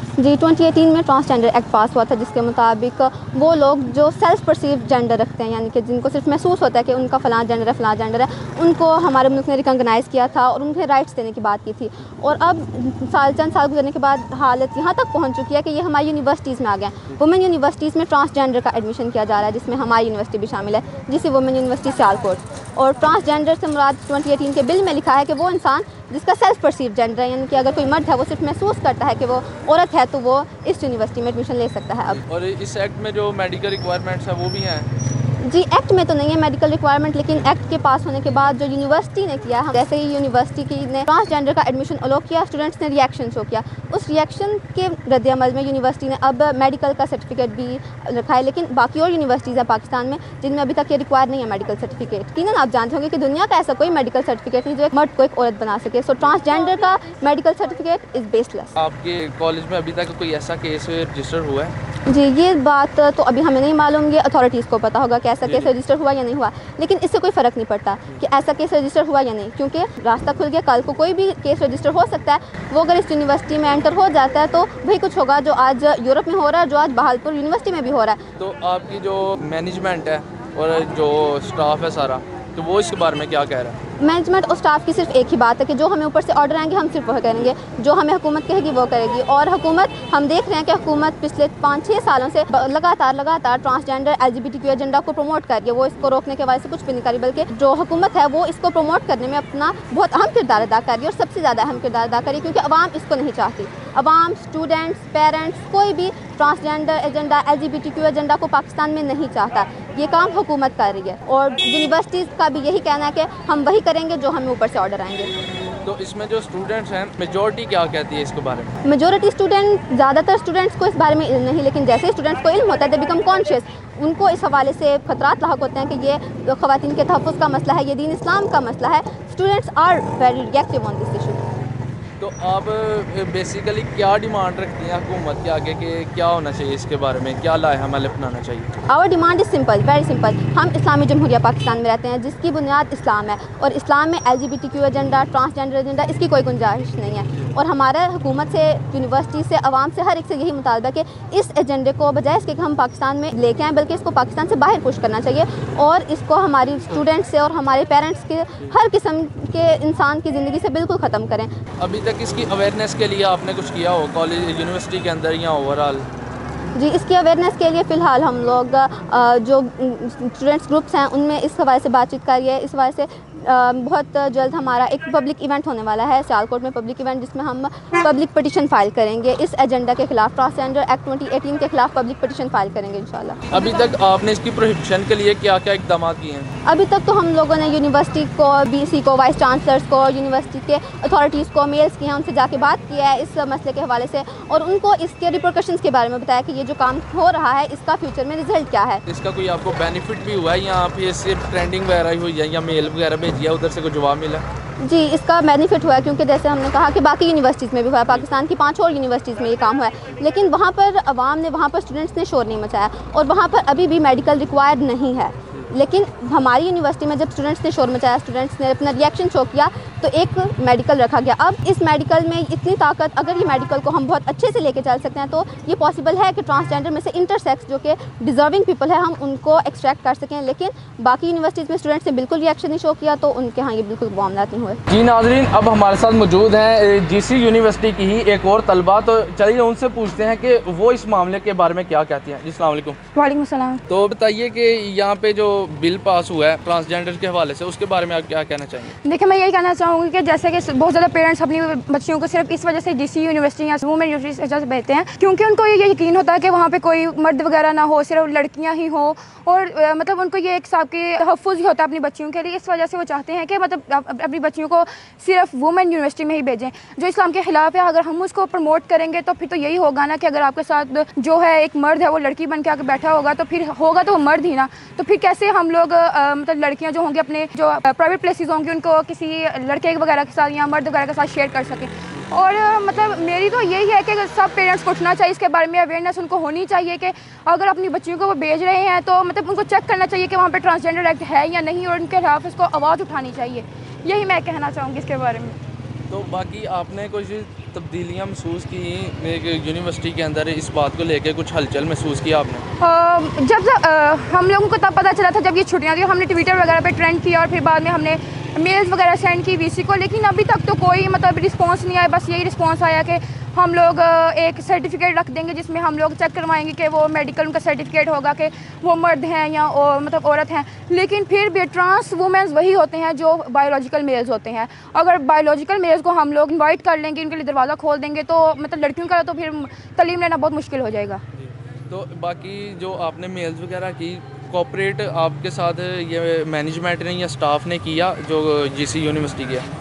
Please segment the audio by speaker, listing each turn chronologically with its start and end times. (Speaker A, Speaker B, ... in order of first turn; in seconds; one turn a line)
Speaker A: 0.2-32.2
Speaker B: 32.1-34.9
Speaker A: 35.4-58.8
Speaker B: 58.8-61.7
Speaker A: 62.1-78.2
Speaker B: 65.5-65.7
Speaker B: 78.4-83.8
Speaker A: 84.0-115.3
Speaker B: 115.8-118.7
Speaker A: 118.8-131.5
Speaker B: 132.2-138.7
Speaker A: 138.9-161.5
Speaker B: 161.8-166.1
Speaker A: 166.8-183.4
Speaker B: 183.5-186.5
Speaker A: 186.6-199.0
Speaker B: 199.1-204.4
Speaker A: 204.8-234.8
Speaker B: 234.9-243.0
Speaker C: 243.1-243.8
Speaker B: 243.9-248.9
Speaker C: 249.0-295.6
Speaker B: 296.1-302.6
Speaker C: 302.8-331.2
Speaker B: 331.9-339.7